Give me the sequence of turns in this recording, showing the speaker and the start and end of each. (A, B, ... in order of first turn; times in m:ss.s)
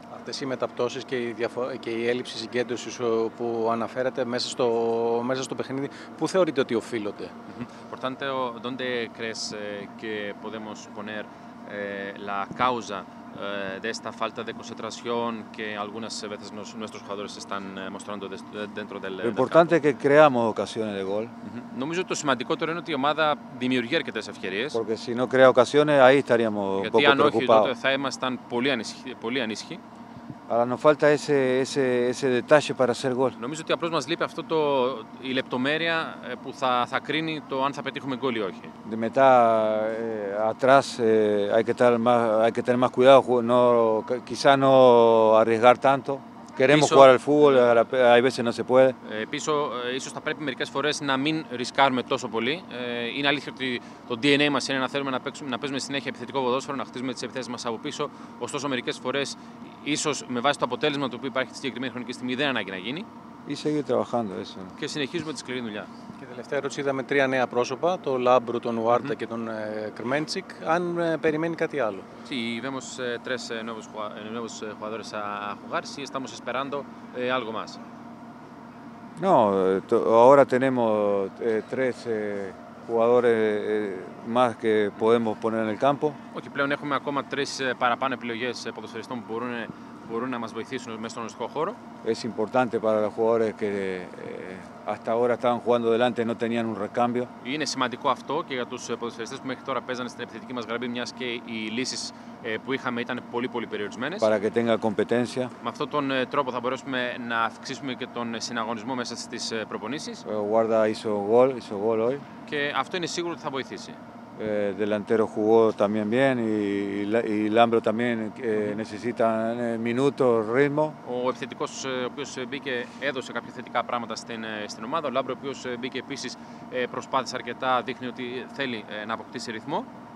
0:00.1-0:07.3 A
0:07.5-0:19.8 B
0:19.2-0:21.3 C
0:21.4-0:24.8 B
0:24.7-0:27.7 C
0:26.8-0:29.8 B
0:30.5-0:33.4 C
0:33.4-0:38.7 B
0:38.8-0:49.0 C
0:46.7-0:47.8 B
0:49.0-1:03.1 B
1:03.5-1:04.7 C
1:04.8-1:05.9 B
1:06.2-1:12.0 A
1:08.9-1:09.2 B
1:12.2-1:17.8 B
1:19.2-1:26.2 C
1:26.3-1:31.8 B
1:32.0-1:37.3 C
1:37.4-1:44.3 B
1:44.2-1:45.5 C
1:45.6-1:50.2 B
1:50.2-1:52.2 C
1:52.4-1:54.0 B
1:54.4-2:01.0 C
2:01.0-2:09.9 B